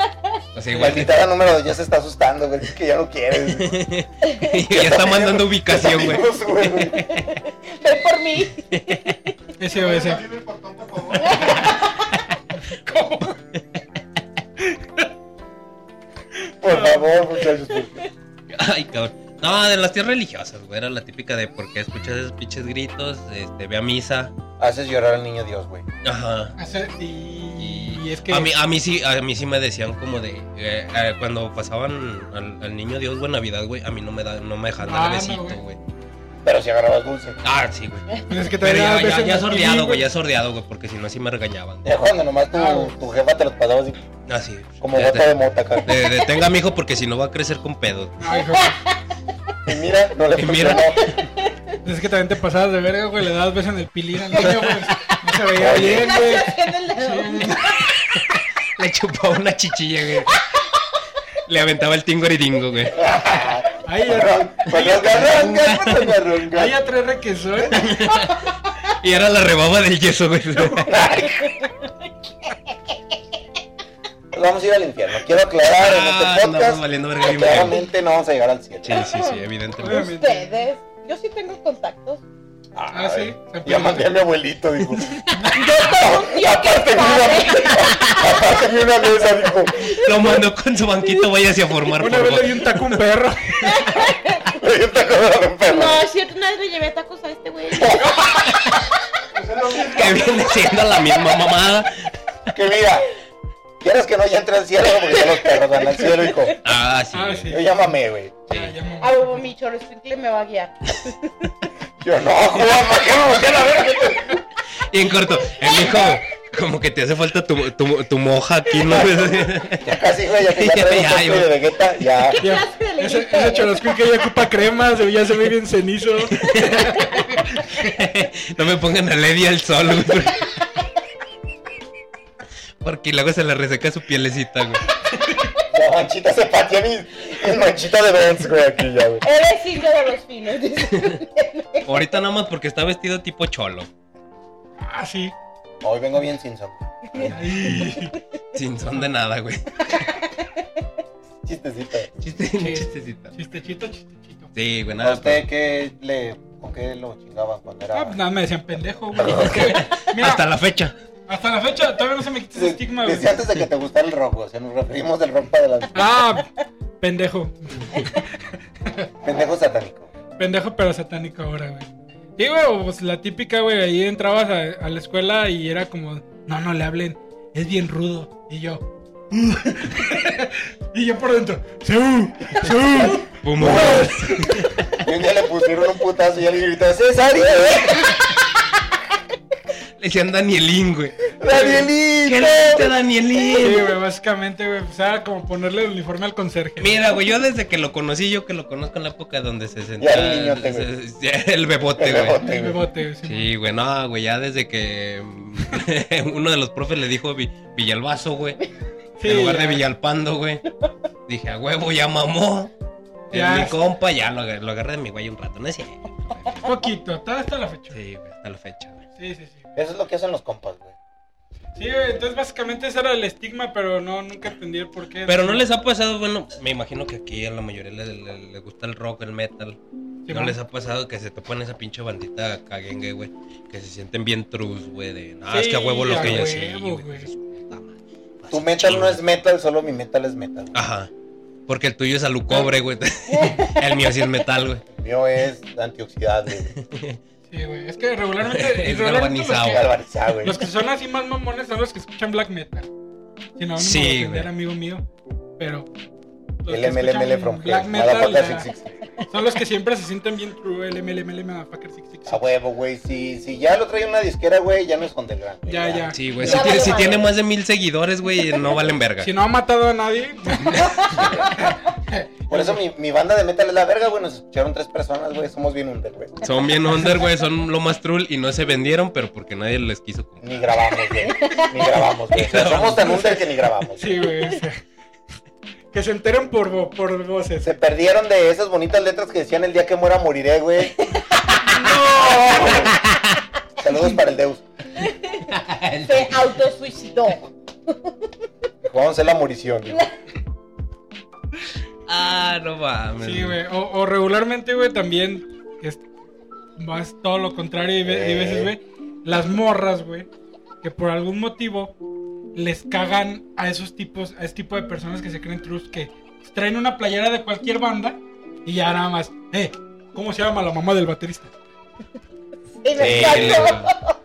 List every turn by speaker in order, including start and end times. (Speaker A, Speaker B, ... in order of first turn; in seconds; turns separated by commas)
Speaker A: 0.5-1.2, Speaker B: 0.7-3.8, Speaker A: 3.5-6.3, Speaker B: 4.7-7.1, Speaker A: 6.8-7.2, Speaker C: 7.0-9.2, Speaker A: 8.7-9.0, Speaker D: 9.6-10.2, Speaker E: 9.7-11.7, Speaker C: 11.2-12.2, Speaker D: 12.9-13.2, Speaker A: 13.3-13.6, Speaker D: 14.7-15.1, Speaker B: 16.6-18.1, Speaker D: 16.6-17.1, Speaker A: 18.5-24.3, Speaker B: 24.6-25.8, Speaker A: 26.0-26.5, Speaker D: 26.6-28.5, Speaker A: 27.6-35.8, Speaker D: 34.8-35.6, Speaker B: 36.4-37.4, Speaker A: 37.4-41.9, Speaker D: 38.3-40.1, Speaker B: 41.8-44.0, Speaker D: 42.5-42.9, Speaker A: 44.3-45.3, Speaker B: 44.8-46.1, Speaker A: 45.8-48.2, Speaker D: 48.2-48.8, Speaker C: 48.3-49.0, Speaker B: 49.6-51.2, Speaker A: 50.4-51.1, Speaker C: 51.1-51.5, Speaker D: 51.8-57.8, Speaker A: 54.4-55.1, Speaker B: 55.5-56.2, Speaker C: 55.8-58.0, Speaker A: 58.8-60.3, Speaker A: 61.5-63.1, Speaker B: 63.0-66.8, Speaker D: 63.8-64.9, Speaker A: 64.7-66.2, Speaker D: 66.5-68.0, Speaker A: 67.7-68.4, Speaker A: 69.0-70.9, Speaker D: 70.5-70.9, Speaker B: 70.8-71.5, Speaker C: 71.5-71.9, Speaker B: 74.3-79.1, Speaker A: 75.8-77.8, Speaker A: 78.8-80.1, Speaker C: 78.9-82.2, Speaker D: 79.8-80.6, Speaker B: 82.8-85.2, Speaker D: 82.9-84.1, Speaker C: 85.4-88.5, Speaker B: 85.8-89.9, Speaker C: 89.8-90.4, Speaker A: 89.9-93.0, Speaker D: 92.0-93.7, Speaker C: 93.6-94.5, Speaker B: 94.5-96.0, Speaker C: 95.7-98.0, Speaker B: 97.8-98.3, Speaker E: 99.3-100.6, Speaker A: 99.8-102.1, Speaker B: 102.5-103.1, Speaker B: 103.8-106.6, Speaker C: 105.1-106.6, Speaker A: 106.6-107.6, Speaker D: 107.1-107.9, Speaker B: 107.5-108.5, Speaker D: 108.5-109.5, Speaker A: 108.5-108.8, Speaker C: 109.0-111.5, Speaker B: 112.0-114.4, Speaker A: 114.9-119.9, Speaker C: 115.6-116.2, Speaker B: 118.9-122.4, Speaker A: 120.5-121.5, Speaker C: 122.3-124.2, Speaker D: 122.4-127.8, Speaker A: 126.3-126.8, Speaker A: 127.8-130.5, Speaker A: 132.8-134.9, Speaker B: 135.7-139.2, Speaker C: 139.2-141.9, Speaker A: 140.9-141.2, Speaker A: 141.8-143.9, Speaker D: 144.8-145.3, Speaker B: 145.8-147.3, Speaker D: 147.3-148.1, Speaker A: 148.5-150.0, Speaker B: 151.4-152.1, Speaker A: 152.2-153.3, Speaker D: 152.6-154.5, Speaker A: 154.5-155.4, Speaker B: 155.0-158.2, Speaker D: 157.9-160.4, Speaker A: 159.2-160.9, Speaker B: 159.2-159.7, Speaker D: 161.3-163.3, Speaker B: 162.5-166.1, Speaker D: 165.9-166.5, Speaker D: 167.0-168.2, Speaker B: 169.2-170.1, Speaker D: 170.4-183.4, Speaker A: 183.4-184.8, Speaker B: 183.6-188.1, Speaker A: 190.0-191.3, Speaker B: 191.4-192.9, Speaker D: 191.4-191.9, Speaker A: 192.2-193.9, Speaker D: 193.6-197.0, Speaker A: 196.8-202.4, Speaker B: 200.0-200.9, Speaker B: 202.0-202.8, Speaker D: 202.4-203.5, Speaker A: 203.2-208.6, Speaker D: 209.2-209.8, Speaker A: 209.2-210.6, Speaker A: 211.3-212.7, Speaker D: 213.3-213.8, Speaker A: 213.3-216.7, Speaker D: 216.6-218.0, Speaker A: 217.9-219.0, Speaker D: 219.2-219.7, Speaker B: 219.8-220.9, Speaker D: 221.8-225.6, Speaker A: 225.2-229.8, Speaker D: 230.2-230.6, Speaker A: 230.3-239.2, Speaker D: 235.5-237.3, Speaker B: 238.5-240.7, Speaker A: 240.7-241.1, Speaker A: 241.7-244.8, Speaker D: 242.5-242.7, Speaker C: 243.3-243.9, Speaker B: 244.9-246.7, Speaker A: 246.7-247.2, Speaker D: 247.5-252.9, Speaker A: 248.4-249.9, Speaker B: 249.7-250.6, Speaker D: 253.6-255.1, Speaker A: 253.8-254.5, Speaker D: 255.6-255.9, Speaker D: 256.6-258.7, Speaker B: 256.7-259.0, Speaker D: 259.3-262.4, Speaker B: 262.2-267.2, Speaker D: 265.6-266.9, Speaker A: 266.1-269.3, Speaker C: 266.4-267.3, Speaker D: 269.2-271.0, Speaker A: 270.7-271.2, Speaker B: 271.2-271.5, Speaker D: 271.7-272.8, Speaker B: 272.5-276.5, Speaker A: 276.4-280.6, Speaker B: 280.4-284.3, Speaker C: 281.2-281.9, Speaker A: 282.3-283.3, Speaker D: 283.0-283.4, Speaker D: 284.0-284.8, Speaker D: 285.9-287.7, Speaker B: 287.6-290.9, Speaker C: 291.6-292.0, Speaker B: 291.8-293.0, Speaker B: 293.8-294.6, Speaker C: 295.0-295.5, Speaker A: 295.5-296.6, Speaker C: 296.0-297.5, Speaker B: 298.8-300.1, Speaker A: 302.1-303.6, Speaker D: 303.2-306.0, Speaker D: 306.8-310.3, Speaker B: 308.0-308.7, Speaker D: 310.8-311.9, Speaker D: 312.5-321.5, Speaker C: 322.8-324.1, Speaker B: 322.9-323.8, Speaker A: 322.9-323.9